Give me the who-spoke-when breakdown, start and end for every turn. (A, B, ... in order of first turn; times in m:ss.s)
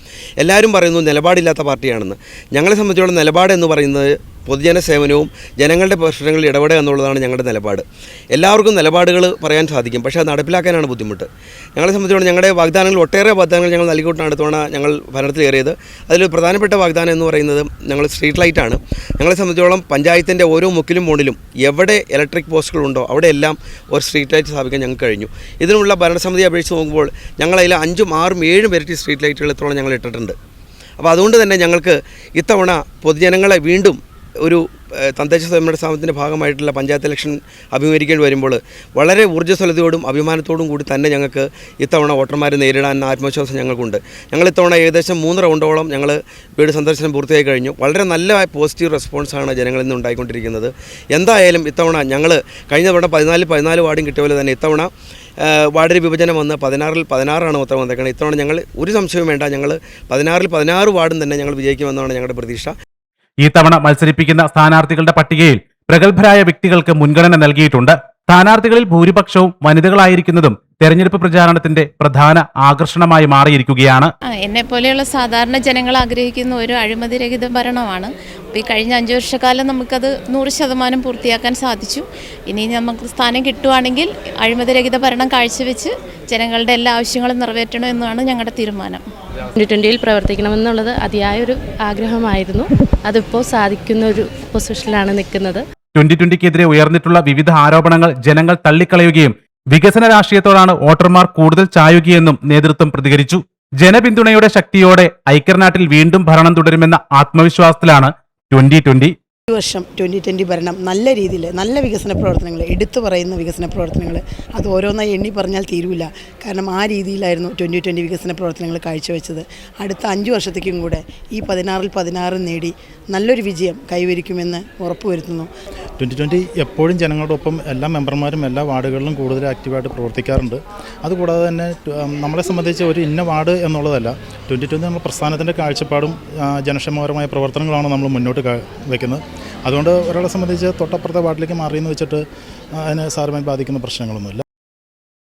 0:00.4-0:30.4 A
0:31.0-0:54.9 A
0:55.4-1:02.7 A
1:03.4-1:14.1 B
1:14.4-1:29.0 C
1:29.6-1:35.6 D
1:36.0-1:49.1 B
1:49.5-2:05.5 E
2:06.0-2:22.2 F
2:22.8-2:24.4 F